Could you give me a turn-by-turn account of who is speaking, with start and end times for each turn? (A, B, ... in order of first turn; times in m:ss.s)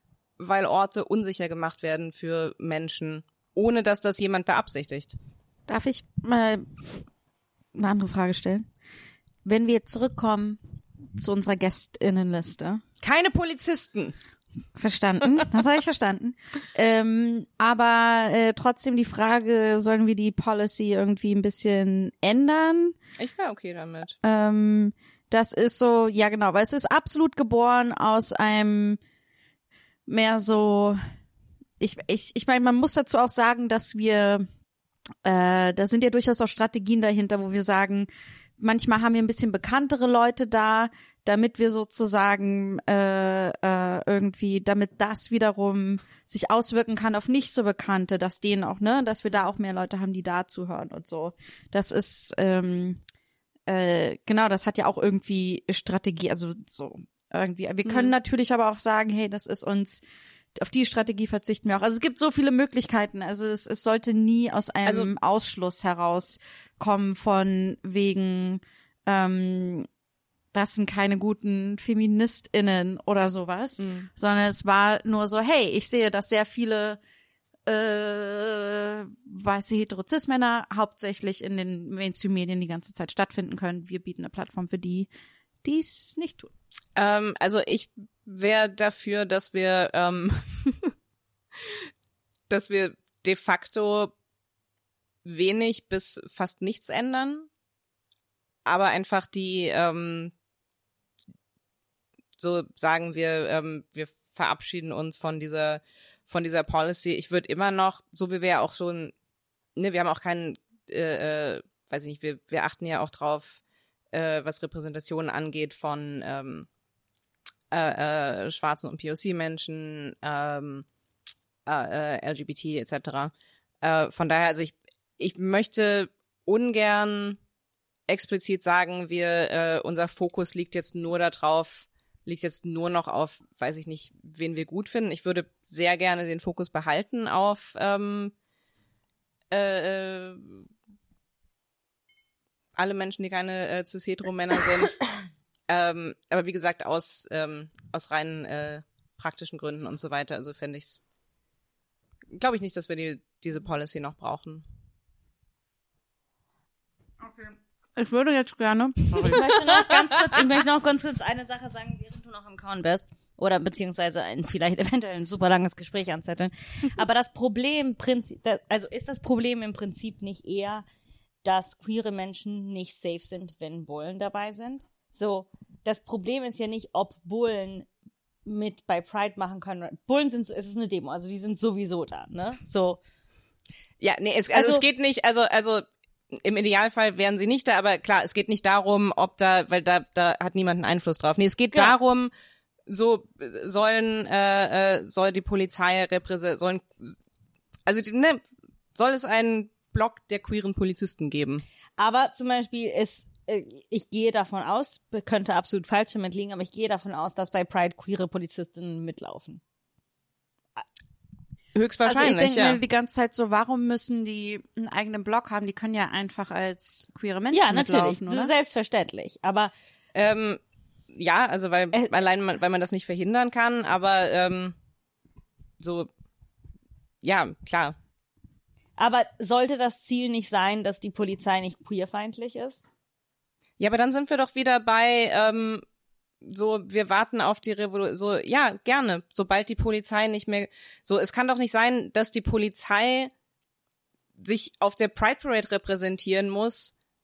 0:00.4-0:05.1 A
0:05.7-0:06.8 B
0:07.7-0:08.7 B
0:09.4-0:10.6 B
0:11.2-0:12.8 B
0:13.0-0:14.1 A
0:14.8-0:23.0 B
0:23.2-0:24.2 A
0:24.2-0:29.0 B
0:30.1-0:31.0 B
0:31.8-0:34.5 B
0:35.2-0:53.0 B
0:53.7-1:00.0 B
0:57.8-0:58.1 A
1:00.5-1:09.9 B
1:04.8-1:05.1 A
1:10.5-1:17.0 B
1:13.8-1:14.1 A
1:17.6-1:25.1 B
1:25.6-1:26.5 B
1:27.0-1:30.9 A
1:32.5-1:34.1 A
1:35.2-1:37.5 A
1:38.6-1:40.3 A
1:42.4-1:49.1 A
1:49.8-1:53.6 A
1:54.1-1:56.7 A
1:57.7-2:00.8 A
2:01.6-2:07.4 A
2:08.1-2:18.3 A
2:19.5-2:20.6 A
2:22.8-2:25.0 A
2:25.7-2:31.0 A
2:32.3-2:34.6 A
2:37.2-2:39.5 B
2:39.2-2:50.8 C
2:51.4-2:57.9 C
2:58.4-3:03.0 C
3:04.0-3:12.3 A
3:04.5-3:04.8 C
3:12.9-3:17.2 A
3:17.8-3:18.4 A
3:18.9-3:21.6 A
3:22.0-3:29.6 C
3:31.7-3:32.8 A
3:32.0-3:38.5 B
3:37.5-3:39.7 C
3:40.1-3:40.6 A
3:41.1-3:44.7 A
3:45.8-3:46.1 A
3:47.2-3:48.0 A
3:49.0-3:52.8 C
3:53.8-3:55.8 A
3:56.4-4:03.3 A
4:04.4-4:06.9 A